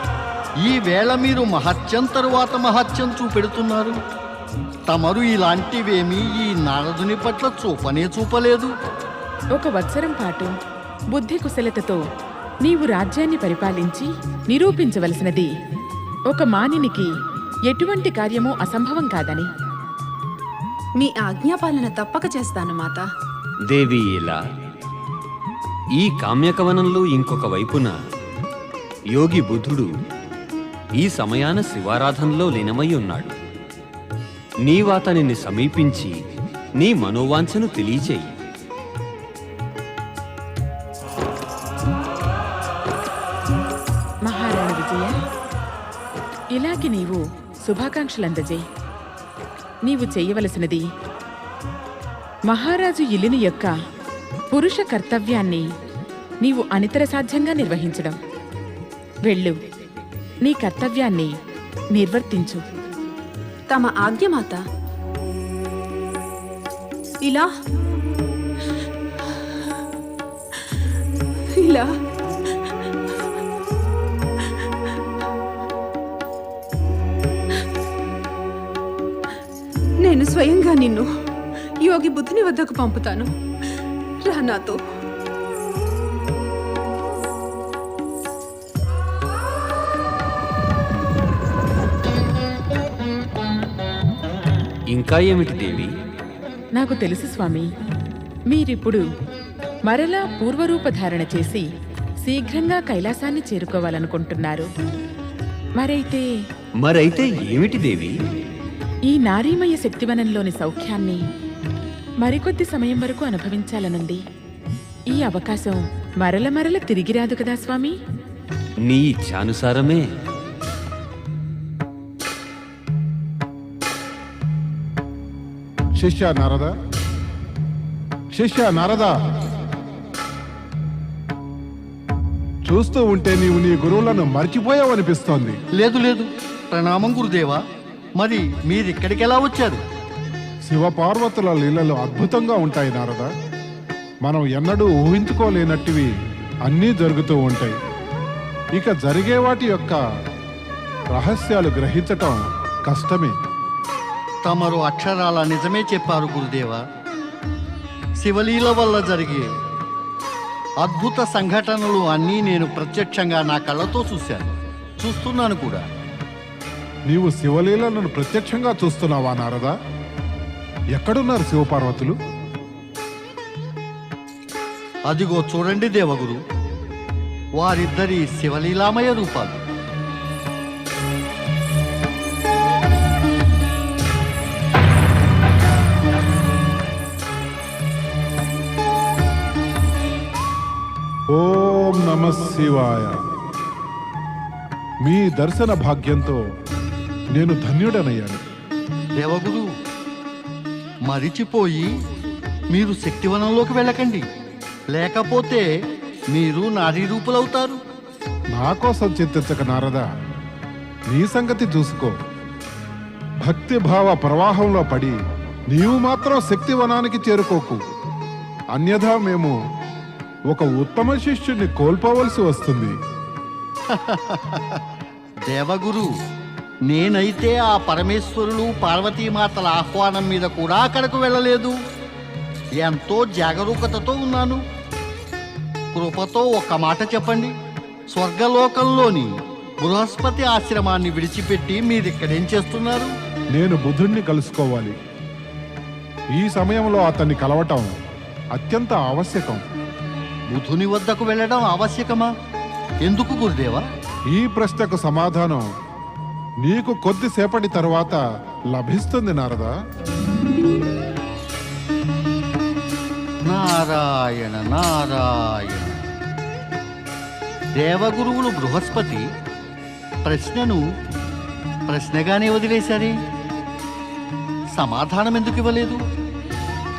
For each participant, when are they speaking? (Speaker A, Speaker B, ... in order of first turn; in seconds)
Speaker A: 0.6-4.0, 4.9-8.7, 135.8-137.6, 138.2-139.8, 154.4-156.8, 158.2-159.5, 160.8-165.8, 175.1-176.4, 177.6-179.6, 199.2-199.7, 201.1-201.9, 202.7-204.2, 204.9-205.7, 206.3-207.8, 223.9-224.8, 225.5-226.1, 226.8-231.8, 232.8-234.6, 235.9-237.5, 238.1-243.1, 250.5-252.3, 253.0-253.8, 263.5-266.0, 267.8-269.2, 270.2-270.8, 271.9-273.1, 274.8-276.0
Speaker B: 9.6-10.5, 11.1-12.0, 12.7-15.5, 16.3-17.1, 17.7-19.5, 44.3-45.1, 46.5-48.6, 49.9-50.8, 52.5-53.7, 54.5-55.6, 56.4-58.2, 59.3-59.5, 60.5-61.3, 62.0-62.6, 96.8-97.7, 98.5-99.0, 99.9-101.7, 102.2-104.7, 105.8-106.3, 109.1-111.2, 112.2-114.2, 115.1-118.0
Speaker C: 21.0-23.1, 63.7-64.6, 67.2-67.5, 71.6-71.9, 80.0-81.1, 81.8-83.3, 84.2-84.8
Speaker D: 23.7-24.4, 26.0-27.9, 29.1-29.9, 31.0-33.3, 34.7-36.1, 36.8-38.3, 94.9-95.9, 106.8-108.1, 118.9-120.1
Speaker E: 126.0-126.7, 128.3-129.1, 132.7-135.6, 140.7-143.3, 144.2-146.1, 146.7-147.8, 148.7-150.0, 151.1-153.3, 167.1-169.8, 170.9-172.2, 191.3-193.2, 195.0-196.4, 197.3-198.4, 208.6-210.1, 211.1-212.1, 213.4-215.2, 215.7-217.8, 218.7-219.5, 220.5-222.9, 243.5-244.9, 246.4-247.9, 248.5-249.6, 254.3-255.7, 256.6-258.2, 258.7-259.7